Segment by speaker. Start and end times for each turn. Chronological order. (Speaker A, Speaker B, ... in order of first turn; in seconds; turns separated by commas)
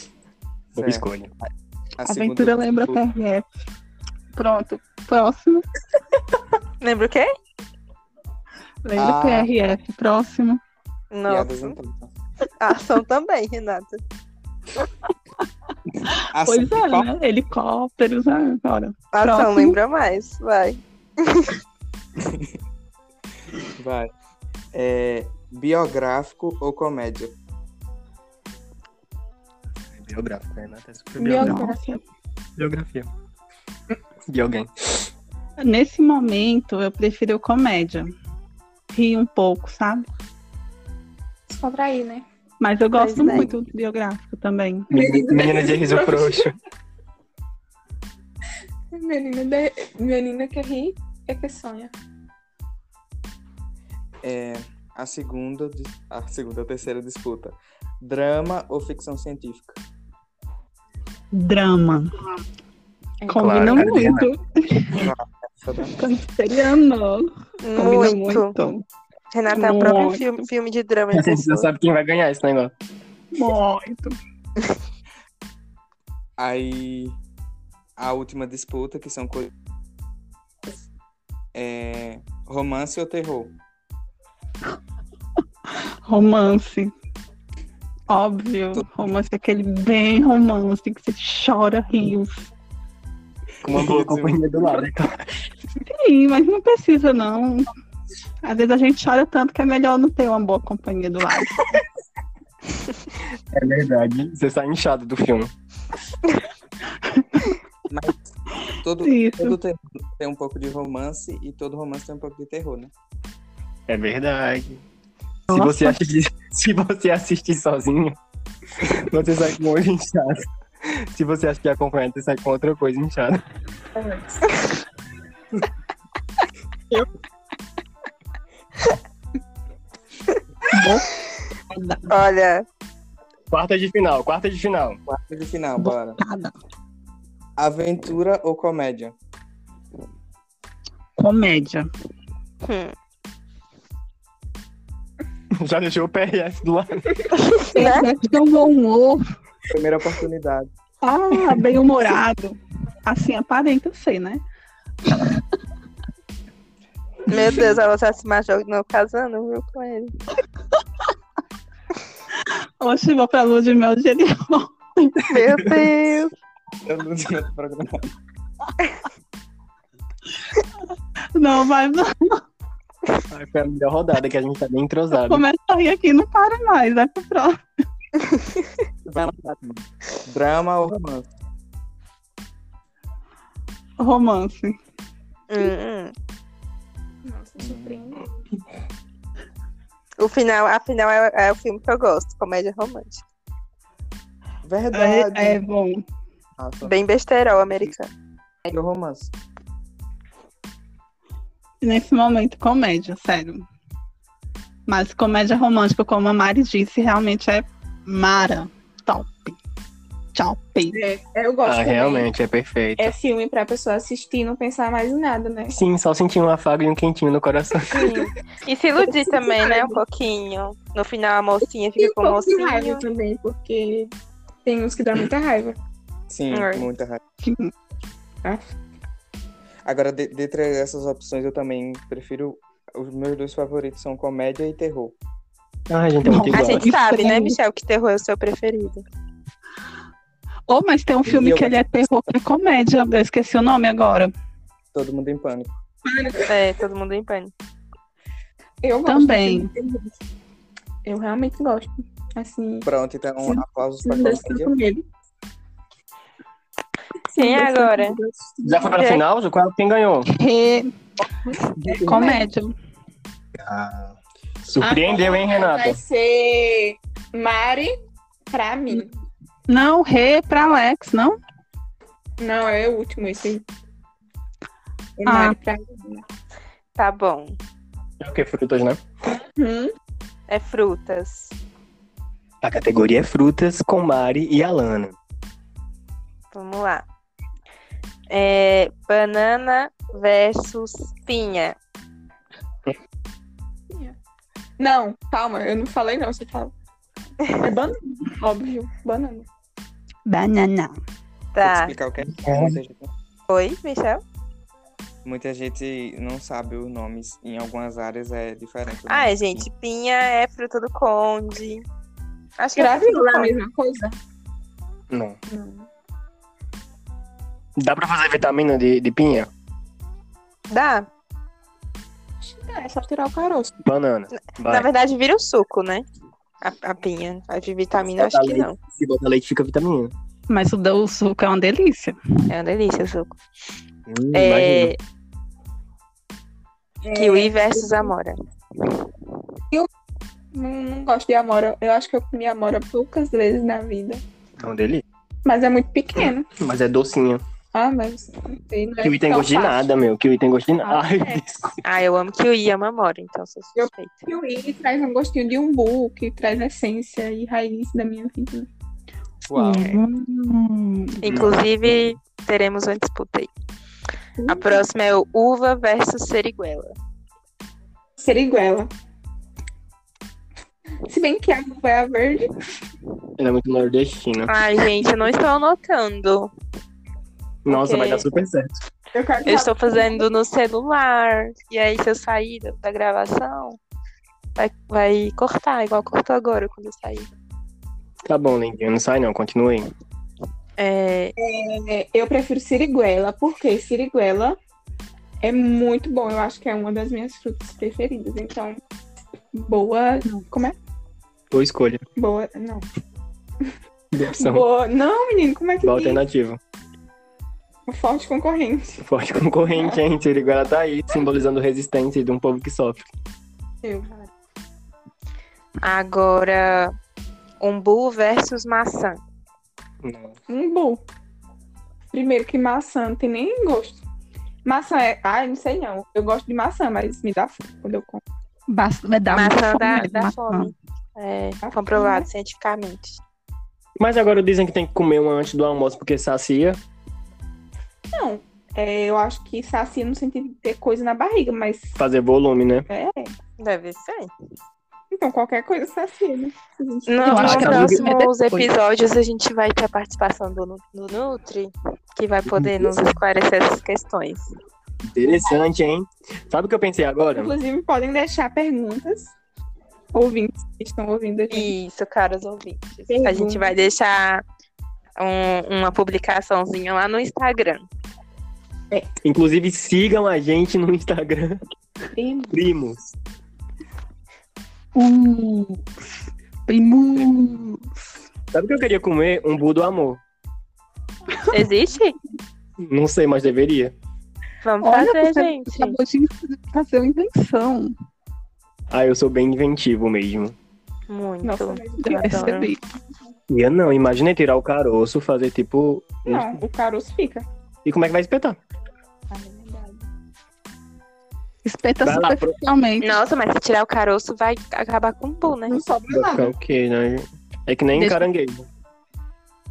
Speaker A: 0.8-1.3, Speaker B: 0.8-1.1, Speaker B: 2.0-3.1, Speaker C: 2.1-3.5, Speaker C: 4.3-5.7, Speaker D: 6.8-7.3, Speaker C: 8.8-10.6, Speaker B: 9.0-9.5, Speaker D: 11.1-11.8, Speaker B: 11.3-12.1, Speaker D: 12.6-14.0, Speaker C: 16.1-19.8, Speaker B: 16.3-17.1, Speaker D: 19.1-21.6, Speaker B: 22.2-22.5, Speaker B: 23.8-24.1, Speaker B: 24.7-27.4, Speaker A: 29.9-31.7, Speaker E: 31.2-32.0, Speaker C: 31.4-32.0, Speaker A: 32.6-33.1, Speaker A: 34.3-35.0, Speaker C: 35.6-38.1, Speaker C: 38.9-40.1, Speaker E: 41.5-42.3, Speaker C: 42.6-44.9, Speaker D: 43.0-43.5, Speaker A: 44.9-46.5, Speaker E: 44.9-46.5, Speaker E: 48.9-51.9, Speaker B: 54.2-59.8, Speaker C: 61.3-62.1, Speaker C: 63.3-65.1, Speaker A: 63.3-64.3, Speaker E: 63.4-63.9, Speaker B: 64.9-66.0, Speaker C: 66.0-68.8, Speaker D: 67.6-68.5, Speaker D: 69.3-71.7, Speaker C: 69.5-70.2, Speaker A: 71.1-72.7, Speaker C: 73.3-74.2, Speaker B: 76.4-77.2, Speaker B: 78.0-79.5, Speaker B: 81.5-83.5, Speaker C: 86.0-86.9, Speaker C: 88.1-92.5, Speaker B: 93.6-94.4, Speaker A: 93.6-95.3, Speaker C: 95.9-97.7, Speaker C: 98.4-101.7, Speaker A: 103.5-105.5, Speaker C: 107.1-107.6, Speaker B: 107.9-108.2, Speaker B: 108.8-112.9, Speaker C: 109.0-109.6, Speaker A: 113.9-114.8, Speaker C: 115.5-116.0, Speaker A: 115.5-118.2, Speaker A: 118.8-123.4, Speaker E: 124.0-124.5, Speaker C: 130.7-131.1, Speaker C: 131.7-132.1, Speaker D: 132.1-132.7, Speaker A: 133.5-135.0, Speaker B: 135.1-136.2, Speaker C: 135.8-136.6, Speaker B: 137.6-139.2, Speaker C: 141.2-141.9, Speaker D: 142.6-142.9, Speaker A: 145.6-147.2, Speaker C: 147.6-149.2, Speaker D: 147.7-148.1, Speaker E: 147.8-148.1, Speaker B: 149.7-150.7, Speaker C: 151.0-154.4, Speaker C: 155.1-155.4, Speaker B: 157.3-157.8, Speaker D: 157.3-160.1, Speaker C: 162.8-165.2, Speaker D: 165.2-166.3, Speaker B: 166.8-168.1, Speaker C: 171.3-172.4, Speaker A: 173.3-175.4, Speaker C: 175.2-177.6, Speaker B: 179.1-181.3, Speaker C: 184.0-184.8, Speaker D: 185.5-186.1, Speaker E: 187.2-188.3, Speaker B: 187.6-188.1, Speaker D: 190.2-193.2, Speaker B: 194.6-195.6, Speaker C: 194.9-196.0, Speaker B: 196.6-196.9, Speaker D: 196.8-198.1, Speaker B: 198.7-199.3, Speaker C: 201.8-203.7, Speaker C: 204.9-209.6, Speaker C: 210.3-211.0, Speaker E: 210.9-212.3, Speaker A: 211.7-213.2, Speaker E: 213.0-215.8, Speaker A: 215.7-218.1, Speaker D: 217.9-223.0, Speaker E: 218.0-218.3, Speaker E: 219.0-220.0, Speaker E: 222.0-224.1, Speaker E: 224.7-225.8, Speaker B: 226.3-227.2, Speaker D: 226.5-226.9, Speaker C: 227.4-227.7, Speaker B: 229.8-235.2, Speaker A: 235.9-236.9, Speaker C: 236.2-237.6, Speaker D: 236.5-239.0, Speaker C: 240.7-244.3, Speaker B: 241.3-242.1, Speaker B: 244.9-245.8, Speaker E: 246.1-246.5, Speaker D: 246.5-247.5, Speaker E: 248.8-250.1, Speaker C: 249.1-249.7, Speaker E: 251.1-252.9, Speaker B: 252.8-254.7, Speaker E: 253.4-255.0, Speaker E: 257.3-259.0, Speaker D: 257.4-258.2, Speaker A: 258.6-260.3, Speaker D: 258.9-259.2, Speaker C: 260.3-260.9, Speaker E: 261.9-262.4, Speaker C: 262.0-262.7, Speaker A: 263.6-264.1, Speaker A: 264.6-266.0, Speaker E: 264.8-267.9, Speaker E: 268.5-269.1, Speaker C: 269.7-271.4, Speaker E: 272.4-273.6, Speaker E: 275.2-276.2, Speaker C: 275.3-275.6, Speaker D: 277.0-277.6, Speaker A: 278.2-279.0, Speaker E: 279.4-279.9, Speaker D: 280.5-281.6, Speaker A: 282.6-285.2, Speaker D: 286.5-287.1, Speaker D: 288.3-291.8, Speaker E: 293.9-294.2, Speaker E: 294.8-296.7, Speaker D: 297.4-297.8, Speaker E: 297.6-299.5, Speaker C: 300.3-301.0, Speaker D: 301.5-301.9, Speaker B: 301.6-303.1, Speaker A: 302.3-302.8, Speaker D: 303.5-304.2, Speaker B: 305.2-309.6, Speaker D: 309.1-311.9, Speaker D: 312.6-313.6, Speaker E: 312.8-314.2, Speaker A: 315.1-315.4, Speaker E: 315.5-315.9, Speaker A: 317.8-319.5, Speaker D: 320.7-321.1, Speaker E: 322.4-323.8, Speaker A: 323.9-324.9, Speaker D: 324.4-326.1, Speaker D: 326.6-328.8, Speaker A: 328.2-330.1, Speaker C: 330.5-332.2, Speaker D: 332.5-333.4, Speaker A: 334.1-334.9, Speaker D: 334.3-335.0, Speaker E: 337.0-338.1, Speaker D: 337.1-339.0, Speaker E: 340.5-344.2, Speaker A: 344.6-345.0, Speaker E: 345.4-346.5, Speaker A: 346.5-347.4, Speaker E: 347.7-349.9, Speaker A: 349.0-351.8, Speaker E: 350.8-351.4, Speaker D: 351.8-354.3, Speaker E: 353.8-358.7, Speaker B: 359.5-359.9, Speaker C: 359.5-361.4, Speaker D: 361.2-363.5, Speaker A: 361.3-361.6, Speaker E: 364.4-364.8, Speaker D: 364.5-366.9, Speaker E: 368.2-368.9, Speaker E: 371.1-372.5, Speaker A: 373.4-374.5, Speaker D: 374.5-376.5, Speaker A: 377.6-378.8, Speaker D: 377.7-378.3, Speaker E: 379.1-380.2, Speaker D: 379.4-383.8, Speaker D: 384.6-387.3, Speaker A: 388.3-389.9, Speaker D: 390.8-391.4, Speaker E: 391.4-394.6, Speaker E: 395.4-398.8, Speaker E: 399.5-400.8, Speaker A: 401.5-402.0, Speaker E: 402.2-402.9, Speaker A: 404.1-404.7, Speaker E: 404.4-406.2, Speaker A: 405.8-406.6, Speaker E: 407.9-409.1, Speaker A: 409.0-413.1, Speaker E: 413.8-414.3, Speaker D: 415.8-416.9, Speaker D: 417.6-419.2, Speaker A: 420.0-420.4, Speaker E: 420.5-421.0, Speaker E: 422.1-424.0, Speaker E: 424.6-428.2, Speaker C: 428.7-430.7, Speaker D: 429.3-433.2, Speaker E: 431.6-432.3, Speaker A: 434.0-436.8, Speaker E: 438.1-442.0, Speaker A: 442.0-442.9, Speaker E: 442.9-443.4, Speaker D: 443.6-444.3, Speaker E: 445.1-447.9, Speaker D: 447.1-454.5, Speaker C: 447.2-448.7, Speaker A: 447.4-448.1, Speaker A: 452.5-453.1, Speaker A: 455.1-457.5, Speaker E: 457.3-459.3, Speaker E: 460.1-461.7, Speaker D: 461.5-464.4, Speaker E: 463.1-463.8, Speaker D: 465.2-467.9, Speaker A: 469.2-471.6, Speaker E: 472.1-472.6, Speaker A: 472.5-473.1, Speaker C: 474.9-476.1, Speaker C: 476.7-477.8, Speaker A: 478.5-480.2, Speaker D: 481.5-482.2, Speaker A: 482.8-483.9, Speaker D: 484.6-486.0, Speaker C: 484.8-487.9, Speaker A: 488.9-490.6, Speaker D: 491.1-492.7, Speaker E: 491.4-492.7, Speaker C: 492.0-492.8, Speaker A: 493.5-496.6, Speaker E: 496.3-497.5, Speaker A: 497.9-498.6, Speaker E: 499.3-500.1, Speaker C: 501.6-503.2, Speaker A: 502.0-502.6, Speaker D: 503.0-505.8, Speaker E: 505.7-506.5, Speaker A: 506.1-508.7, Speaker C: 508.0-508.3